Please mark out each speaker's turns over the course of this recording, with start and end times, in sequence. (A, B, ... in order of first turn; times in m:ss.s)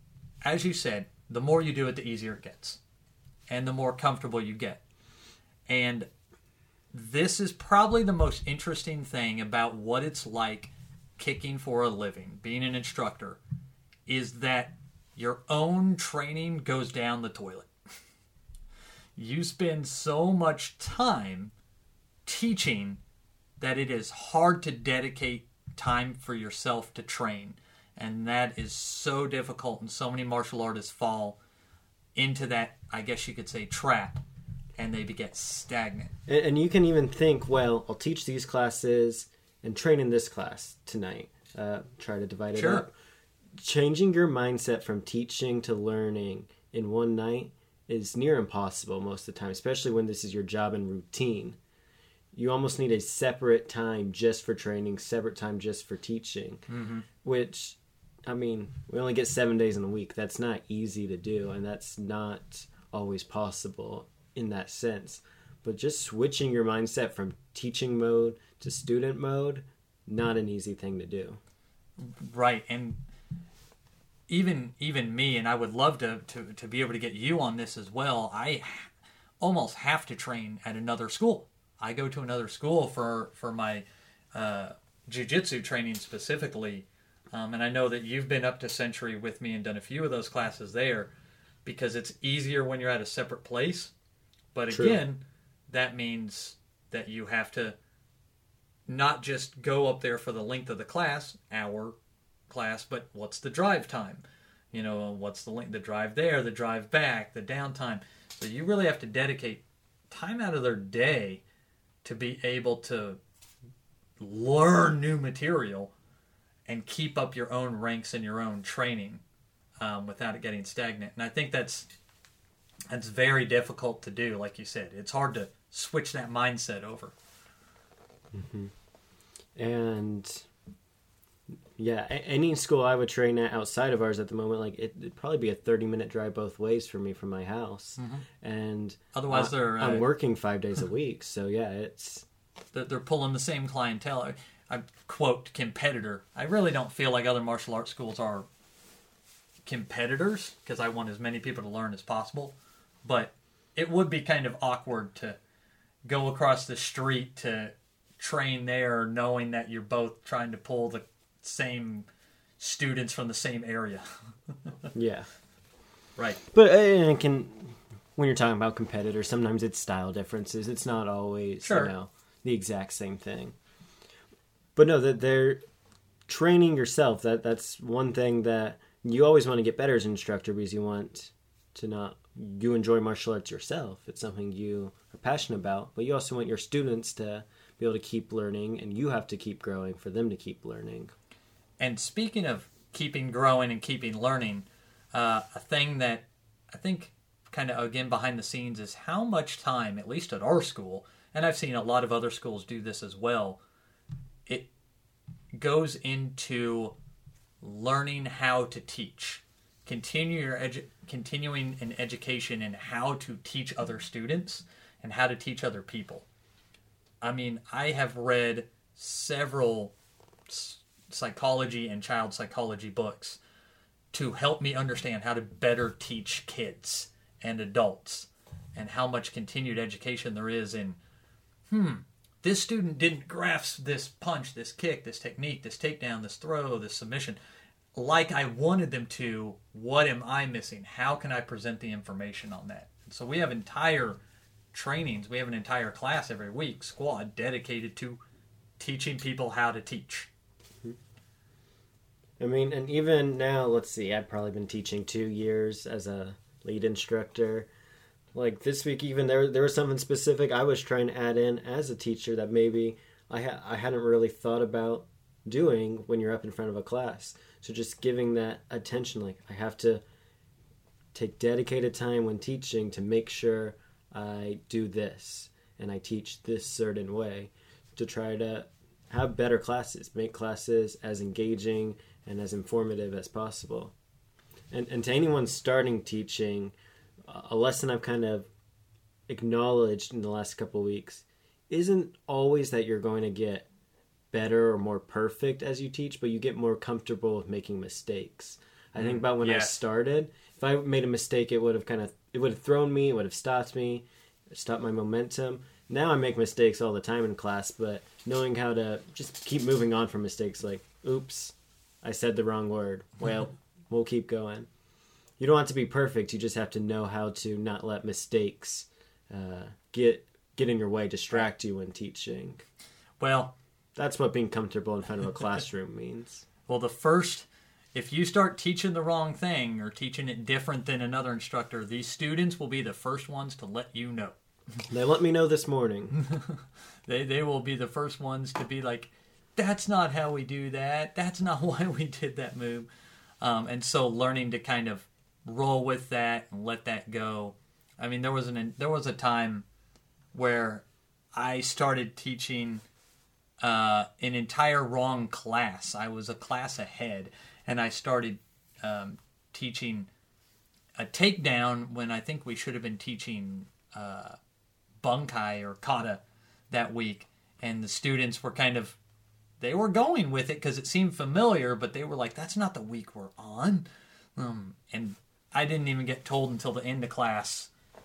0:00.4-0:02.8 A
0:03.5-0:04.8 A
0:05.7-0:06.1 A
0:06.9-0:13.4 A
0:14.1-0:17.7 A
0:19.2-0:21.5 A
0:22.2-0:23.0 A
0:23.6-0:31.4 A
0:32.2-0:34.2 A
0:34.8-0:36.1 A
0:36.3-0:42.9 B
0:42.5-0:42.8 A
0:43.6-0:51.6 B
0:52.3-0:56.6 B
0:56.7-0:57.0 A
0:57.2-1:11.4 B
1:12.0-1:13.0 A
1:14.3-1:31.1 A
1:31.6-1:33.9 A
1:34.5-1:37.8 A
1:34.7-1:35.0 B
1:38.9-1:42.0 A
1:42.5-1:51.4 A
1:52.0-1:53.2 A
1:54.2-1:55.9 A
1:56.7-1:59.2 A
1:59.8-2:01.9 A
2:02.9-2:07.1 A
2:08.3-2:08.7 B
2:09.6-2:10.5 B
2:11.8-2:22.2 B
2:18.0-2:18.2 A
2:19.1-2:20.1 A
2:22.7-2:28.5 A
2:29.6-2:35.4 A
2:36.0-2:42.0 A
2:42.6-2:44.0 A
2:44.9-2:45.3 B
2:46.5-2:53.5 B
2:51.6-2:51.9 A
2:54.8-2:55.6 B
2:56.3-3:11.1 B
3:11.8-3:23.6 A
3:25.5-3:26.9 A
3:27.6-3:36.2 A
3:37.2-3:39.9 A
3:40.5-3:43.4 A
3:44.1-3:51.0 A
3:51.7-3:57.4 A
3:57.9-4:04.2 A
4:04.7-4:08.2 A
4:08.8-4:10.3 A
4:12.4-4:17.7 B
4:18.3-4:30.0 B
4:31.1-4:43.9 B
4:44.7-4:48.5 B
4:49.3-4:53.7 B
4:54.3-5:14.7 B
4:59.0-4:59.8 A
5:15.4-5:22.6 B
5:23.2-5:23.5 A
5:24.0-5:26.4 B
5:26.7-5:34.4 A
5:34.9-5:36.1 B
5:36.1-5:42.9 A
5:43.4-5:49.6 A
5:50.3-5:50.8 A
5:51.4-5:52.8 A
5:53.6-6:00.1 A
6:01.0-6:04.4 A
6:05.0-6:09.0 A
6:09.6-6:17.7 A